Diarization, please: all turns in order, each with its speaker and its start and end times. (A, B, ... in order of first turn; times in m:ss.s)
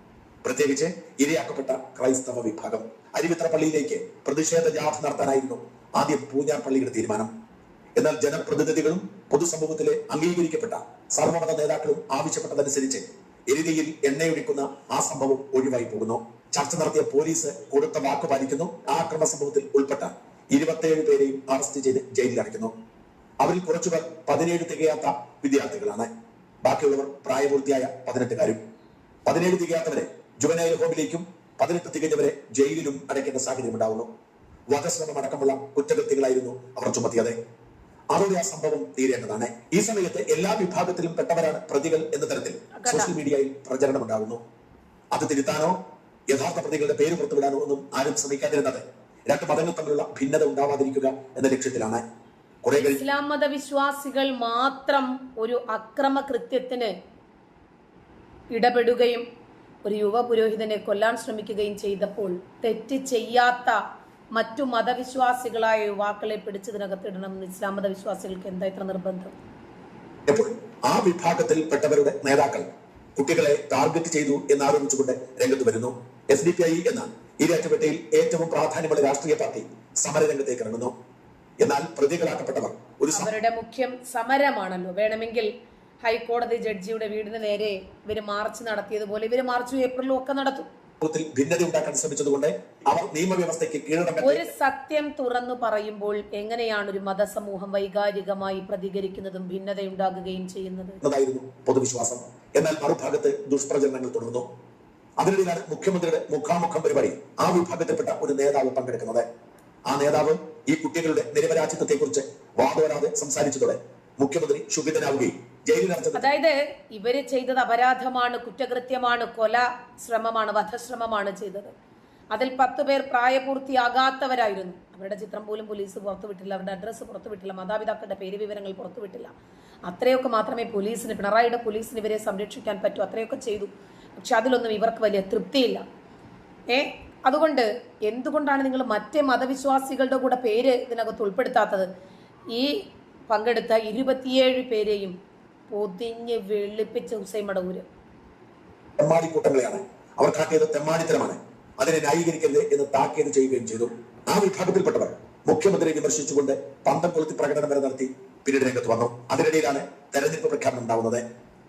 0:00.4-0:07.3 A
0:08.0-0:22.7 A
0:23.4-0:26.1 A
0:26.6-0:28.6 A
0:29.2-0:34.1 A
0:34.7-0:37.4 A
0:38.1-0:44.4 A
0:42.8-0:43.1 B
0:45.1-0:45.8 A
0:46.3-0:52.0 A
0:52.6-0:53.0 A
0:52.9-0:56.9 B
0:58.5-0:59.2 B
0:59.8-1:03.8 B
1:04.3-1:09.3 B
1:10.3-1:20.9 A
1:21.6-1:23.3 A
1:23.1-1:25.5 B
1:26.0-1:30.7 B
1:31.0-1:34.5 A
1:34.2-1:41.0 B
1:41.0-1:44.5 A
1:45.2-1:49.2 A
1:49.9-1:56.3 A
1:56.1-2:01.7 B
2:02.3-2:09.3 B
2:09.8-2:15.8 B
2:16.7-2:21.9 B
2:23.3-2:25.1 B
2:25.7-2:27.8 B
2:29.0-2:41.2 A